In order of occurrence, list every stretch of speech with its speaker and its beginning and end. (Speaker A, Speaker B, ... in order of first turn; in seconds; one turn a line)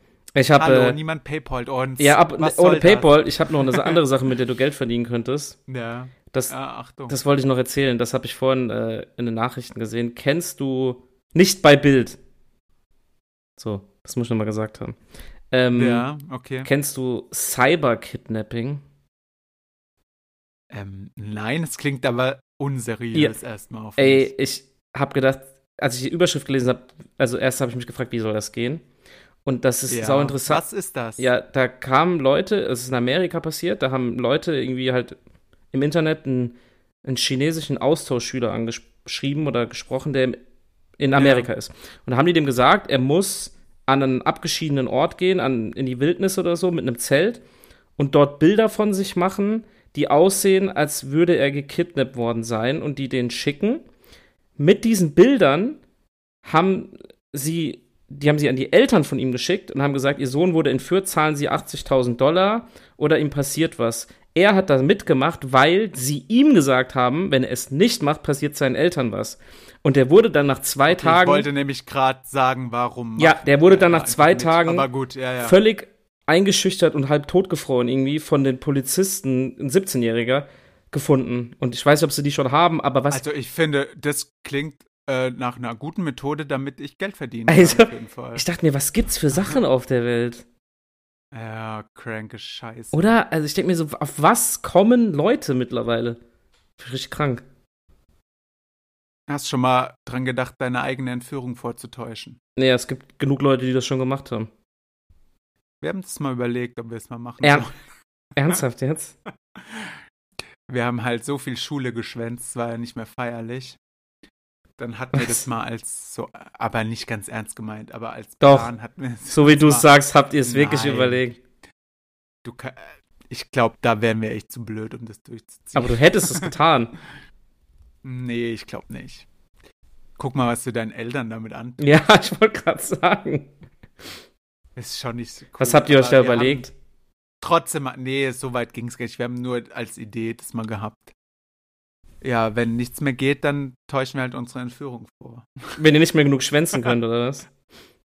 Speaker A: 0.3-1.0
Speaker B: 0.5-4.0
Speaker A: 2.0-5.6
Speaker B: 5.7-7.1
Speaker A: 7.1-12.2
Speaker A: 13.6-14.9
Speaker A: 15.5-16.1
Speaker B: 15.7-16.7
Speaker A: 16.6-18.8
Speaker B: 20.7-24.3
Speaker A: 24.0-28.8
Speaker A: 29.4-30.6
Speaker B: 29.9-31.2
Speaker A: 31.2-35.2
Speaker A: 35.7-40.4
Speaker A: 41.0-47.4
Speaker B: 41.1-41.5
Speaker A: 48.0-53.8
Speaker A: 54.6-55.8
Speaker A: 56.4-71.5
Speaker B: 70.9-75.6
Speaker A: 73.2-74.9
Speaker A: 75.4-83.2
Speaker B: 83.1-88.4
Speaker A: 87.5-90.4
Speaker B: 91.3-93.0
Speaker A: 92.9-96.2
Speaker A: 96.8-97.4
Speaker B: 99.3-102.4
Speaker A: 102.5-104.5
Speaker B: 105.8-107.7
Speaker A: 108.3-109.1
Speaker B: 109.6-109.9
Speaker B: 110.7-113.8
Speaker B: 114.8-119.9
Speaker A: 115.1-115.4
Speaker A: 118.4-118.7
Speaker A: 119.3-121.4
Speaker B: 120.5-121.2
Speaker B: 122.4-126.5
Speaker A: 125.7-126.9
Speaker B: 128.0-129.2
Speaker B: 130.2-131.8
Speaker A: 131.8-133.5
Speaker B: 134.8-136.7
Speaker A: 135.6-136.7
Speaker B: 137.4-141.1
Speaker B: 142.2-145.8
Speaker A: 145.8-147.5